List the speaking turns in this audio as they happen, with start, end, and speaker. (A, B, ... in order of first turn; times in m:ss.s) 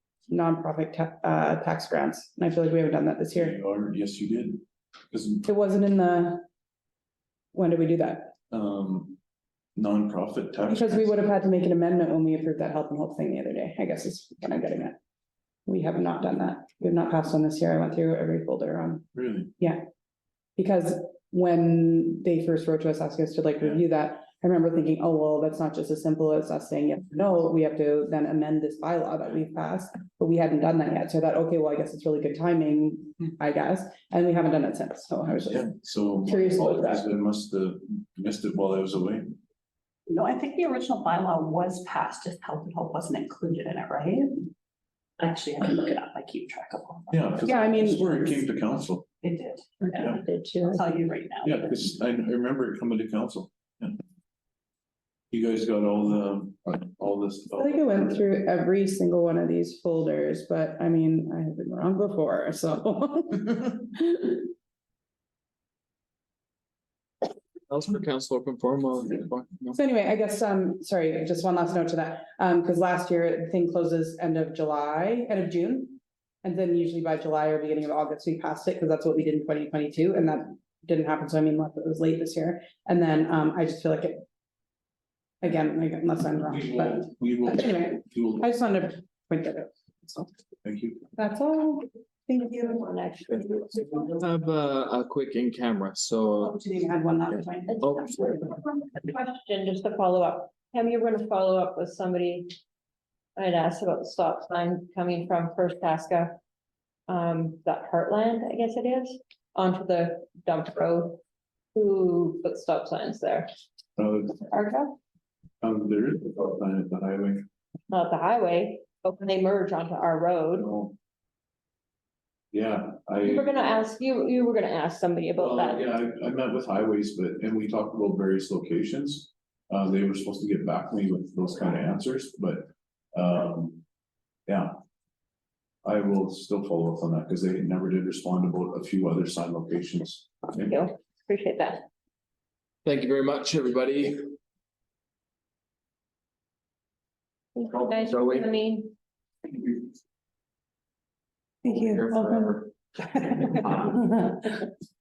0:00.3-0:03.6 A
0:03.3-0:05.5 B
0:05.4-0:06.4 A
0:07.5-0:08.3 A
0:08.5-0:09.2 B
0:09.8-0:11.2 B
0:10.7-0:15.0 A
0:15.7-0:19.0 A
0:19.1-0:19.5 B
0:19.6-0:19.8 A
0:20.6-0:35.7 A
0:35.5-0:39.4 B
0:36.2-0:37.0 A
0:40.1-0:44.5 C
0:45.2-0:47.9 C
0:47.1-0:49.1 B
0:47.4-0:48.2 A
0:49.2-0:50.1 C
0:49.8-0:50.8 A
0:50.6-0:51.7 C
0:51.4-0:54.0 B
0:55.3-0:58.2 B
0:57.6-1:04.5 A
1:07.7-1:09.8 D
1:09.8-1:24.2 A
1:25.4-1:30.3 A
1:26.4-1:28.5 B
1:30.6-1:31.1 B
1:31.2-1:32.9 A
1:32.8-1:33.6 E
1:34.2-1:36.6 D
1:36.4-1:38.4 A
1:37.7-1:42.6 E
1:37.8-1:38.4 D
1:43.4-1:46.4 E
1:47.1-1:51.2 E
1:51.7-1:53.5 E
1:54.0-1:54.6 B
1:55.6-1:57.5 B
1:57.9-2:00.7 E
2:00.6-2:00.9 B
2:02.5-2:03.5 B
2:03.2-2:05.8 E
2:05.4-2:13.8 B
2:14.5-2:14.8 B
2:15.8-2:20.8 B
2:20.5-2:21.8 E
2:22.8-2:24.3 D
2:27.6-2:28.9 E
2:28.0-2:28.5 D
2:31.6-2:34.7 A
2:31.7-2:32.6 D
2:33.5-2:33.9 D